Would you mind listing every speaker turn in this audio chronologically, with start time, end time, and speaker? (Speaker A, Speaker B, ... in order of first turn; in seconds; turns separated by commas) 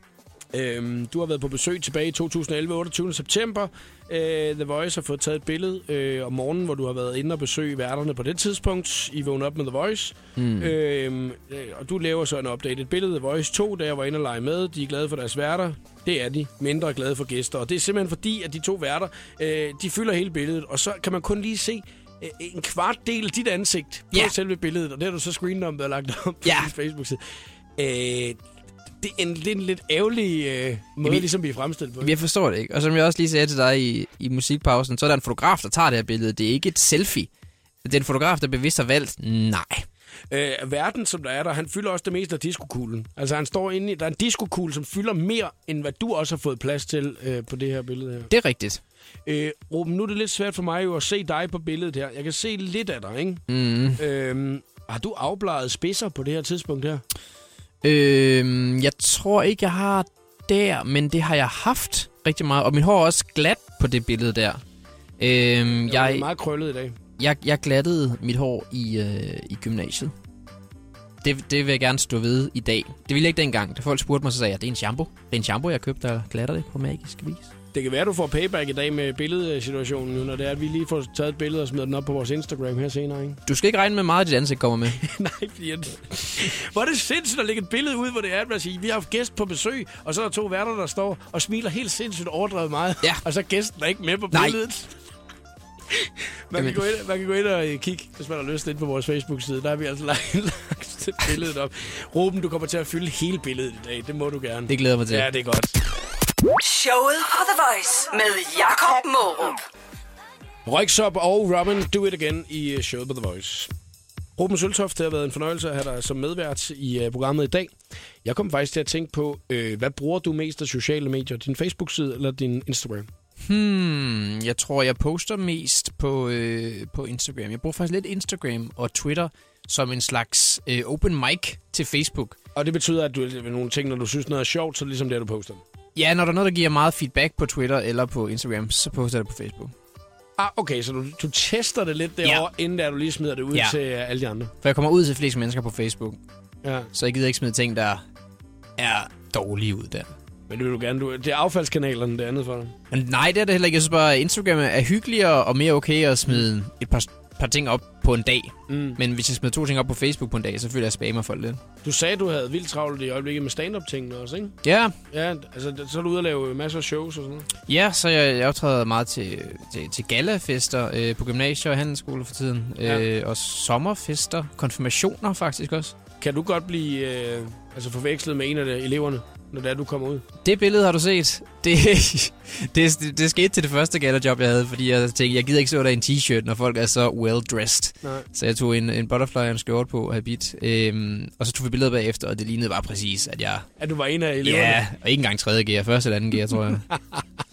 Speaker A: 0.5-27.2, Speaker B: 10.4-10.7, Speaker B: 26.4-26.7, Speaker A: 27.8-28.4, Speaker A: 29.0-32.1, Speaker B: 32.0-37.3, Speaker B: 37.8-39.8, Speaker A: 40.3-48.3, Speaker B: 48.3-48.8, Speaker A: 49.2-53.4, Speaker B: 53.5-54.0, Speaker A: 54.0-57.0, Speaker B: 57.8-64.6, Speaker B: 65.2-66.2, Speaker A: 65.8-66.9, Speaker B: 67.2-70.1, Speaker B: 71.2-77.5, Speaker A: 77.7-83.4, Speaker B: 83.5-85.0, Speaker A: 85.0-94.9, Speaker A: 96.0-105.7, Speaker B: 96.5-96.8, Speaker B: 104.7-105.3, Speaker C: 106.6-109.6, Speaker A: 110.7-113.7, Speaker A: 114.4-123.1, Speaker B: 123.5-132.4, Speaker A: 132.5-135.6, Speaker B: 135.9-139.7, Speaker A: 140.4-144.5, Speaker B: 144.6-146.2, Speaker A: 146.6-146.9, Speaker B: 146.9-148.0, Speaker B: 148.8-150.1, Speaker A: 150.5-152.7, Speaker B: 152.9-161.6, Speaker A: 158.7-159.0, Speaker A: 161.8-164.5, Speaker B: 164.6-164.9, Speaker A: 165.1-167.5, Speaker B: 167.7-175.9, Speaker A: 176.2-180.2, Speaker B: 180.4-193.7, Speaker A: 193.8-194.8, Speaker B: 194.4-196.8, Speaker A: 196.9-197.2